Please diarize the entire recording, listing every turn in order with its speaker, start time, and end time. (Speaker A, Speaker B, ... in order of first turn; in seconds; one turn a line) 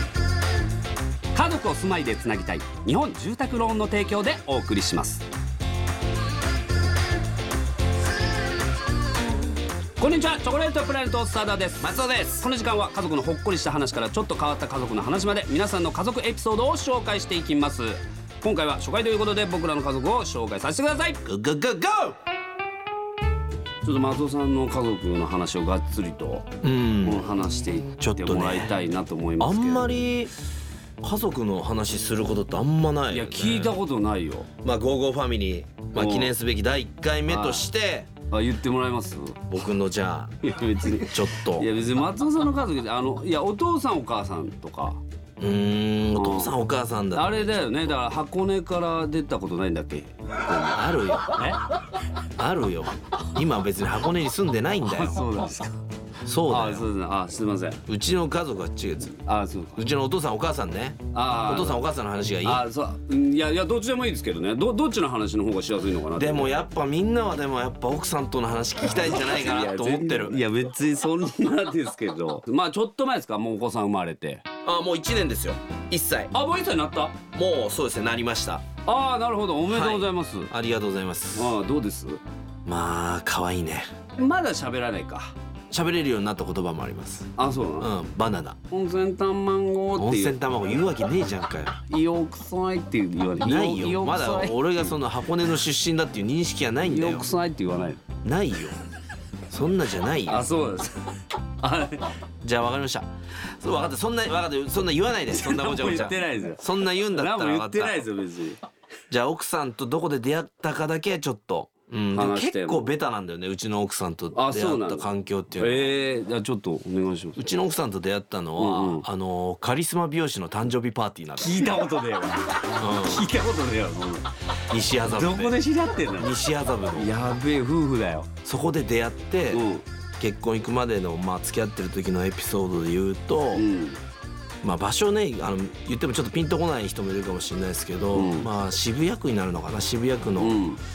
Speaker A: 1.3-5.2
Speaker A: 10.0-21.2
Speaker B: 11.8-12.5
Speaker B: 21.2-22.1
Speaker A: 23.8-26.4
Speaker B: 26.6-27.3
Speaker A: 27.0-30.0
Speaker B: 28.0-28.7
Speaker B: 29.4-30.3
Speaker B: 31.0-33.8
Speaker A: 33.1-34.5
Speaker B: 34.6-38.1
Speaker A: 36.0-36.3
Speaker A: 37.3-37.6
Speaker A: 38.3-39.5
Speaker B: 39.5-40.3
Speaker A: 40.4-45.0
Speaker B: 40.9-41.7
Speaker B: 45.4-47.5
Speaker A: 46.1-46.5
Speaker A: 47.1-51.6
Speaker B: 50.6-51.3
Speaker B: 52.4-55.2
Speaker A: 54.8-55.8
Speaker B: 56.2-56.9
Speaker A: 56.5-57.8
Speaker B: 57.9-59.2
Speaker A: 59.2-59.8
Speaker B: 59.8-62.6
Speaker A: 61.1-61.8
Speaker A: 62.4-66.6
Speaker B: 66.1-70.4
Speaker A: 69.1-74.4
Speaker B: 74.6-76.3
Speaker A: 76.3-77.2
Speaker B: 77.3-78.6
Speaker A: 78.8-80.5
Speaker B: 79.7-81.5
Speaker A: 81.3-82.2
Speaker B: 82.7-83.9
Speaker A: 84.2-85.3
Speaker B: 85.7-88.6
Speaker A: 87.3-87.9
Speaker A: 88.7-90.4
Speaker B: 90.0-91.8
Speaker A: 91.9-94.9
Speaker B: 93.4-97.3
Speaker A: 96.8-98.0
Speaker B: 98.2-98.8
Speaker B: 99.5-100.5
Speaker A: 100.3-102.1
Speaker B: 102.4-103.1
Speaker B: 103.6-108.0
Speaker A: 105.3-108.6
Speaker B: 109.1-115.9
Speaker A: 112.1-112.9
Speaker A: 114.3-115.1
Speaker A: 115.6-117.5
Speaker B: 117.4-121.7
Speaker A: 118.6-119.0
Speaker A: 121.4-124.3
Speaker B: 122.8-123.3
Speaker B: 124.7-125.6
Speaker A: 125.0-126.3
Speaker B: 126.1-127.1
Speaker A: 126.9-128.3
Speaker B: 128.4-129.6
Speaker A: 129.5-129.8
Speaker B: 130.2-133.6
Speaker A: 133.5-134.0
Speaker B: 134.6-140.7
Speaker A: 138.1-138.5
Speaker A: 140.4-140.8